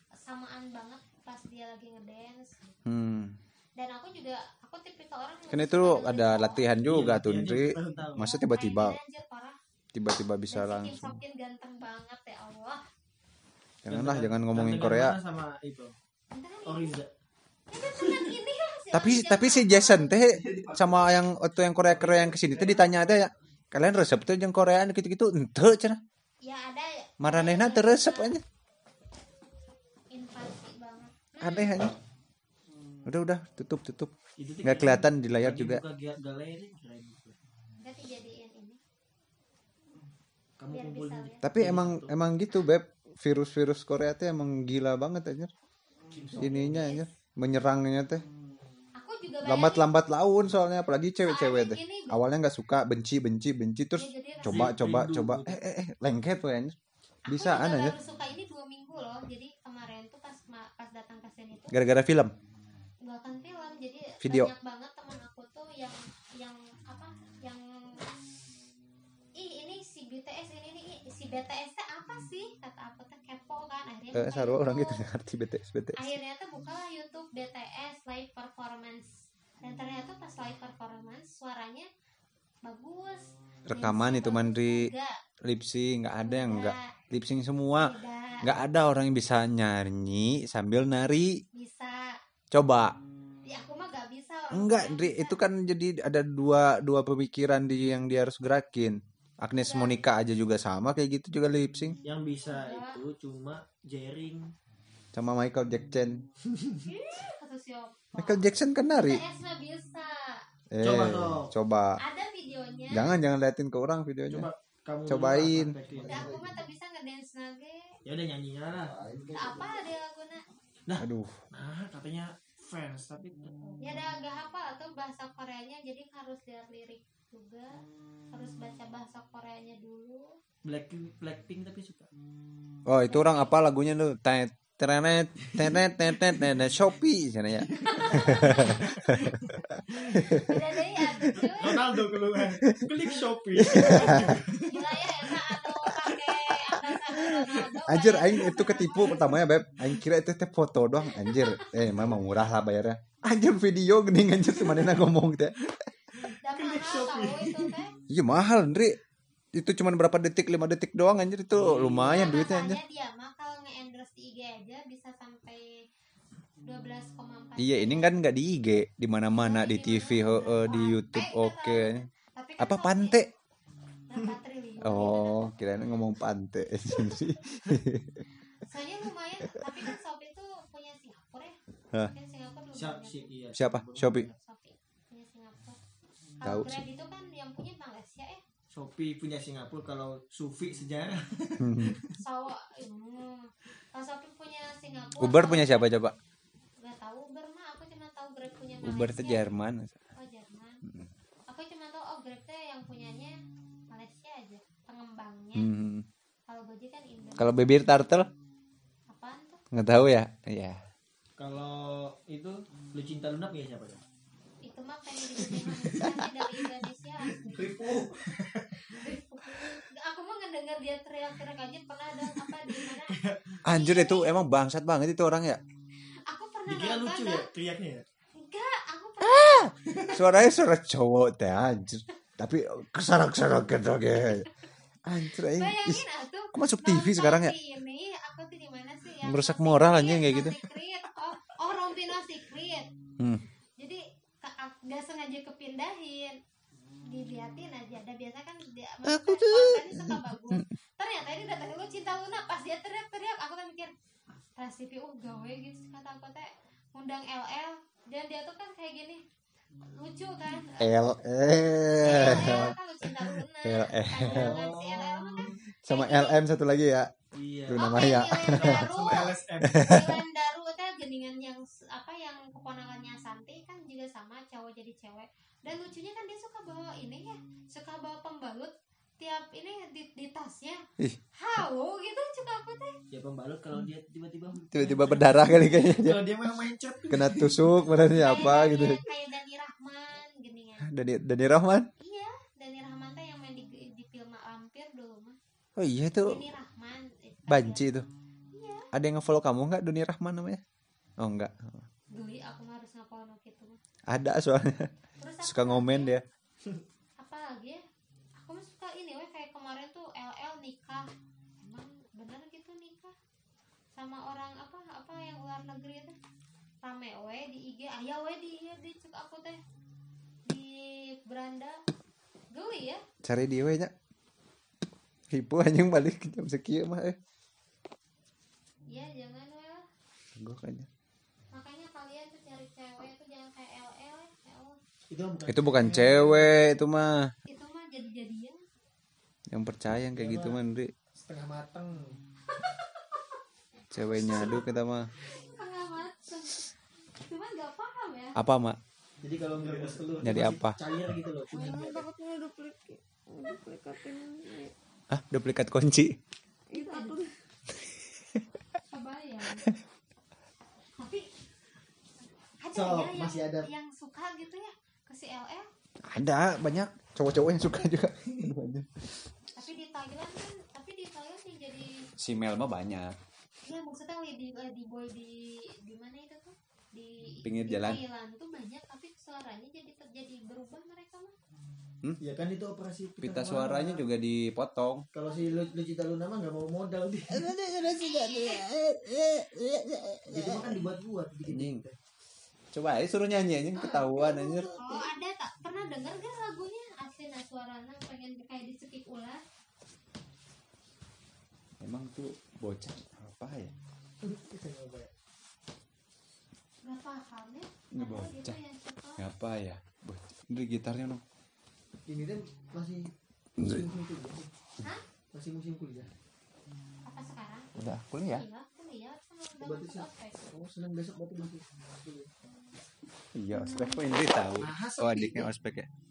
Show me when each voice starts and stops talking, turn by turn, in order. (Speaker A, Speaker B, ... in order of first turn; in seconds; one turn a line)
Speaker A: 0.2-2.8
Speaker B: 2.9-3.3
Speaker A: 3.8-6.6
Speaker B: 5.5-9.0
Speaker C: 6.8-8.2
Speaker A: 8.2-9.6
Speaker B: 9.9-11.2
Speaker A: 10.5-12.8
Speaker B: 13.8-15.2
Speaker C: 13.8-15.9
Speaker A: 16.3-17.0
Speaker C: 16.6-17.1
Speaker A: 17.7-20.2
Speaker C: 17.9-18.4
Speaker B: 18.9-26.0
Speaker C: 20.5-21.0
Speaker C: 21.8-23.3
Speaker A: 26.4-28.3
Speaker B: 27.2-28.4
Speaker A: 30.1-31.8
Speaker B: 31.4-31.9
Speaker B: 33.0-35.8
Speaker C: 34.4-37.4
Speaker A: 37.8-38.8
Speaker C: 40.6-42.1
Speaker A: 40.7-41.4
Speaker B: 41.4-45.5
Speaker C: 46.1-47.0
Speaker B: 46.4-48.2
Speaker A: 49.0-49.9
Speaker B: 49.5-56.7
Speaker A: 51.2-52.2
Speaker A: 54.0-54.7
Speaker C: 54.4-55.6
Speaker A: 57.2-61.8
Speaker B: 57.3-58.0
Speaker B: 61.7-62.3
Speaker A: 63.0-68.0
Speaker B: 64.2-64.5
Speaker A: 69.3-75.0
Speaker B: 74.1-76.1
Speaker A: 76.0-81.9
Speaker A: 82.6-85.2
Speaker B: 83.7-84.9
Speaker B: 85.4-91.4
Speaker A: 86.2-86.9
Speaker A: 87.8-88.5
Speaker A: 91.5-92.2
Speaker B: 92.5-93.0
Speaker A: 93.5-95.4
Speaker B: 94.5-102.0
Speaker A: 99.6-100.0
Speaker C: 102.0-104.5
Speaker A: 102.4-103.0
Speaker B: 105.1-106.2
Speaker C: 106.5-106.9
Speaker A: 106.8-110.4
Speaker B: 108.2-109.2
Speaker B: 110.7-112.0
Speaker C: 110.8-111.5
Speaker A: 112.0-113.2
Speaker B: 112.9-114.5
Speaker C: 114.3-116.5
Speaker B: 115.1-116.5
Speaker A: 116.0-117.8
Speaker C: 118.0-119.7
Speaker B: 118.9-119.5
Speaker A: 119.3-120.4
Speaker C: 120.8-123.8
Speaker B: 121.0-121.4
Speaker A: 123.8-127.8
Speaker A: 128.3-130.4
Speaker C: 130.6-132.1
Speaker B: 132.9-140.7
Speaker A: 133.0-133.6
Speaker C: 135.6-135.8
Speaker C: 137.7-140.4
Speaker A: 137.8-138.8
Speaker A: 140.4-141.8
Speaker C: 141.2-147.6
Speaker B: 143.6-144.4
Speaker A: 144.7-149.3
Speaker B: 147.9-155.7
Speaker A: 151.1-152.2
Speaker A: 154.6-155.0
Speaker C: 156.2-157.8
Speaker A: 156.4-157.9
Speaker B: 158.1-158.9
Speaker B: 159.5-162.8
Speaker C: 161.5-162.3
Speaker A: 162.1-165.7
Speaker A: 166.6-168.1
Speaker B: 167.6-172.1
Speaker A: 169.3-173.3
Speaker B: 172.6-173.3
Speaker A: 174.1-175.6
Speaker B: 174.8-178.2
Speaker A: 178.6-181.6
Speaker A: 182.1-183.3
Speaker C: 182.7-184.3
Speaker B: 183.5-184.3
Speaker A: 184.3-185.8
Speaker A: 186.4-188.4
Speaker B: 186.4-186.8
Speaker C: 188.7-192.1
Speaker B: 191.6-192.0
Speaker A: 192.2-195.9
Speaker B: 195.2-196.1
Speaker A: 196.8-199.5
Speaker B: 198.8-200.0
Speaker A: 200.2-200.8
Speaker A: 201.5-203.4
Speaker A: 203.9-205.7
Speaker B: 205.5-206.1
Speaker A: 206.5-207.8
Speaker B: 207.4-208.3
Speaker A: 209.1-209.6
Speaker B: 209.7-210.8
Speaker C: 211.4-214.0
Speaker A: 214.6-218.1
Speaker C: 215.3-216.6
Speaker C: 217.4-219.1
Speaker A: 218.8-224.3
Speaker C: 222.3-223.6
Speaker B: 223.6-225.6
Speaker A: 226.3-227.5
Speaker C: 226.7-228.0
Speaker A: 228.4-230.3
Speaker B: 229.2-234.5
Speaker C: 229.8-230.4
Speaker B: 235.0-236.0
Speaker A: 235.4-242.9
Speaker B: 236.5-237.5
Speaker B: 239.2-240.6
Speaker A: 243.8-246.4
Speaker A: 247.0-253.9
Speaker B: 249.1-250.6
Speaker A: 254.6-259.2
Speaker A: 259.9-260.9
Speaker B: 260.8-262.8
Speaker A: 262.0-266.4
Speaker C: 262.0-262.7
Speaker B: 263.6-264.6
Speaker C: 264.2-265.6
Speaker B: 265.8-267.1
Speaker C: 267.3-270.1
Speaker B: 267.7-268.8
Speaker A: 267.8-280.8
Speaker B: 269.6-270.1
Speaker A: 281.4-282.9
Speaker C: 283.1-287.8
Speaker B: 284.7-286.2
Speaker B: 287.1-289.1
Speaker A: 288.1-290.9
Speaker B: 290.9-291.9
Speaker A: 292.0-295.4
Speaker B: 295.8-296.4
Speaker A: 296.2-297.9
Speaker B: 297.5-298.1
Speaker A: 298.5-298.9
Speaker B: 298.9-300.6
Speaker B: 301.2-301.9
Speaker A: 302.1-303.8
Speaker B: 304.1-304.9
Speaker A: 305.2-306.1
Speaker B: 305.4-306.2
Speaker A: 307.2-307.8
Speaker A: 308.4-313.1
Speaker A: 313.9-316.1
Speaker A: 316.8-319.6
Speaker A: 320.4-321.8
Speaker A: 322.5-323.0
Speaker B: 323.2-323.9
Speaker B: 325.3-327.2
Speaker A: 328.9-329.8
Speaker B: 330.4-330.9
Speaker A: 331.5-334.8
Speaker C: 335.1-336.6
Speaker B: 335.5-337.3
Speaker A: 337.5-338.6
Speaker B: 339.5-340.9
Speaker C: 340.1-340.6
Speaker C: 341.2-342.2
Speaker A: 342.5-343.4
Speaker B: 343.9-345.1
Speaker A: 344.1-344.6
Speaker C: 344.1-344.6
Speaker A: 345.3-346.7
Speaker A: 347.2-348.4
Speaker B: 348.4-348.8
Speaker C: 349.2-352.1
Speaker B: 350.2-350.8
Speaker D: 351.5-354.7
Speaker B: 355.1-356.2
Speaker D: 356.7-357.3
Speaker A: 356.7-357.2
Speaker B: 357.8-358.4
Speaker A: 358.9-359.7
Speaker A: 361.0-361.3
Speaker A: 362.6-365.7
Speaker C: 362.7-363.7
Speaker B: 366.0-368.9
Speaker A: 369.6-372.1
Speaker B: 372.2-373.1
Speaker A: 373.6-381.3
Speaker B: 377.4-378.0
Speaker C: 382.2-384.0
Speaker B: 383.2-385.1
Speaker C: 385.1-387.5
Speaker A: 385.2-385.7
Speaker B: 387.3-390.8
Speaker A: 387.9-388.6
Speaker C: 390.3-391.9
Speaker B: 391.4-391.8
Speaker B: 392.7-394.7
Speaker D: 394.0-395.0
Speaker A: 394.8-399.4
Speaker B: 401.8-403.7
Speaker C: 404.2-405.1
Speaker A: 406.8-409.2
Speaker B: 407.9-408.6
Speaker B: 409.2-411.2
Speaker C: 412.1-414.5
Speaker B: 413.6-413.9
Speaker C: 415.3-416.1
Speaker A: 417.0-417.7
Speaker B: 417.8-418.4
Speaker A: 418.2-420.3
Speaker C: 419.6-422.3
Speaker B: 423.3-425.9
Speaker A: 423.5-424.0
Speaker C: 424.6-425.5